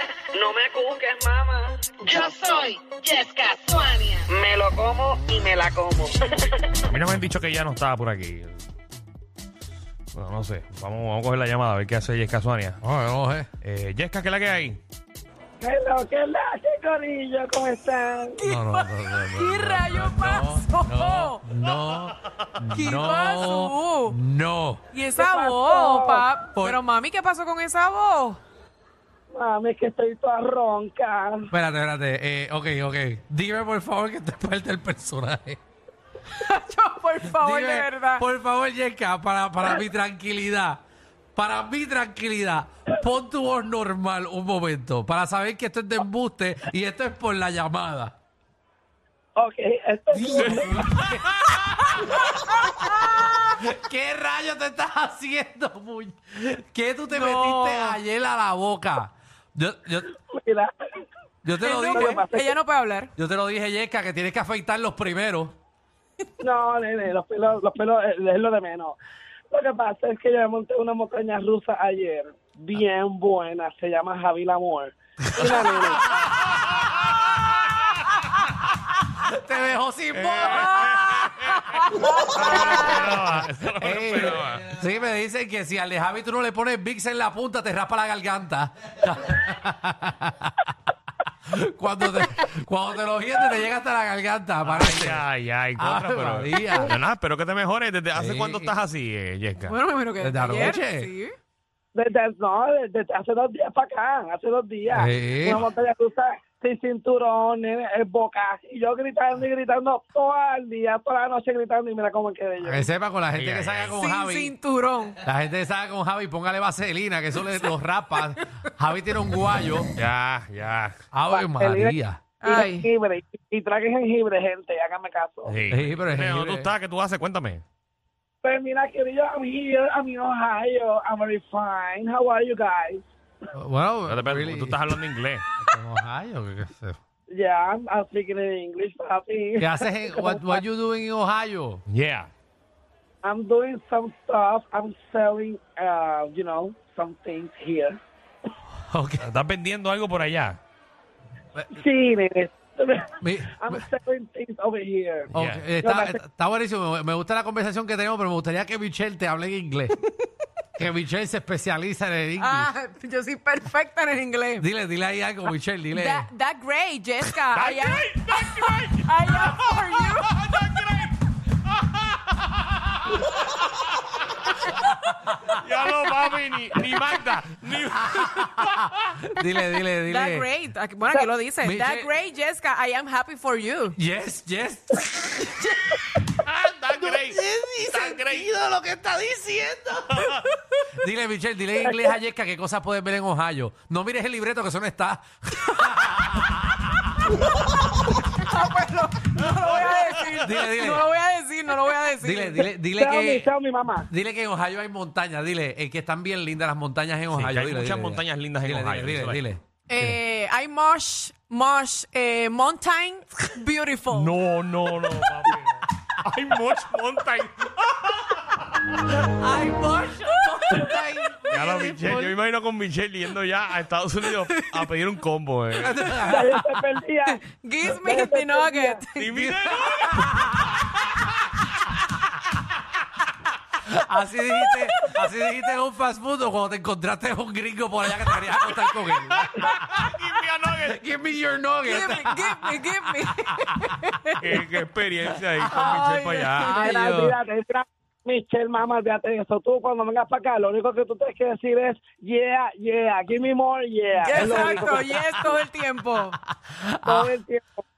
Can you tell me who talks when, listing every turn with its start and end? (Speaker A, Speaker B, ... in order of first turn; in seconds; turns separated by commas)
Speaker A: 0.4-5.7, Speaker B: 0.7-1.5, Speaker B: 2.1-6.1, Speaker C: 6.9-8.6, Speaker C: 10.1-12.8, Speaker D: 12.8-13.5, Speaker C: 13.6-14.8, Speaker A: 15.6-18.4, Speaker E: 18.4-21.4, Speaker D: 18.4-24.8, Speaker E: 22.7-24.1, Speaker E: 24.9-28.4, Speaker A: 25.1-26.2, Speaker A: 29.3-31.5, Speaker D: 31.5-35.6, Speaker E: 36.3-38.2, Speaker D: 37.3-40.8, Speaker D: 41.4-48.1, Speaker A: 49.4-50.9, Speaker D: 50.1-52.0, Speaker C: 50.4-51.6, Speaker D: 52.5-60.1, Speaker E: 57.1-58.0, Speaker A: 60.3-60.7, Speaker D: 61.4-62.2, Speaker E: 61.6-63.1, Speaker A: 61.9-62.5, Speaker D: 63.2-65.5, Speaker A: 66.4-69.0, Speaker A: 69.5-76.1, Speaker D: 75.2-76.2, Speaker D: 79.0-81.1, Speaker C: 80.1-84.7, Speaker E: 80.5-83.0, Speaker D: 82.3-90.7, Speaker D: 91.2-95.2, Speaker C: 94.7-99.8, Speaker D: 95.8-97.0, Speaker D: 98.1-98.7, Speaker E: 99.6-101.3, Speaker D: 100.2-101.1, Speaker A: 101.9-112.9, Speaker D: 104.9-105.6, Speaker D: 112.6-114.5, Speaker C: 113.3-114.0, Speaker E: 113.9-115.2, Speaker D: 115.2-119.9, Speaker C: 120.0-121.0, Speaker D: 121.1-122.2, Speaker A: 121.3-125.6, Speaker E: 122.4-122.9, Speaker C: 125.5-127.6, Speaker D: 125.7-126.7, Speaker A: 128.4-133.0, Speaker D: 133.5-135.0, Speaker C: 134.1-135.4, Speaker D: 135.6-137.0, Speaker A: 137.3-140.6, Speaker D: 139.6-141.8, Speaker C: 141.9-142.3, Speaker A: 143.2-148.0, Speaker D: 148.7-149.3, Speaker C: 149.2-150.6, Speaker A: 151.7-156.2, Speaker D: 153.2-153.8, Speaker D: 155.3-160.0, Speaker C: 155.3-155.7, Speaker D: 160.8-162.7, Speaker E: 162.4-164.6, Speaker D: 164.6-166.3, Speaker E: 165.9-170.4, Speaker C: 167.5-173.8, Speaker C: 175.3-179.2, Speaker D: 178.1-180.5, Speaker E: 180.1-184.0, Speaker D: 181.6-182.1, Speaker D: 183.9-186.2, Speaker C: 186.4-188.5, Speaker D: 186.9-190.3, Speaker C: 190.1-190.4, Speaker D: 190.9-196.9, Speaker A: 191.8-192.1, Speaker E: 198.1-202.6, Speaker D: 200.4-201.1, Speaker D: 202.2-203.5, Speaker A: 202.9-204.1, Speaker D: 204.1-210.2, Speaker C: 207.3-209.4, Speaker E: 209.9-214.3, Speaker C: 214.1-219.0, Speaker E: 219.2-221.0, Speaker D: 220.3-222.3, Speaker C: 221.5-226.2, Speaker D: 225.8-226.8, Speaker A: 226.3-229.0, Speaker E: 227.4-229.3, Speaker C: 229.2-231.3, Speaker D: 229.3-230.5, Speaker D: 233.8-240.0, Speaker E: 234.7-235.2, Speaker C: 239.2-241.1, Speaker D: 240.8-243.5, Speaker E: 241.9-244.6, Speaker C: 244.4-246.8, Speaker D: 245.6-246.0, Speaker E: 245.7-247.0, Speaker D: 246.6-247.3, Speaker A: 246.6-255.0, Speaker E: 254.1-256.4, Speaker D: 254.4-255.6, Speaker D: 256.1-257.3, Speaker A: 257.0-257.8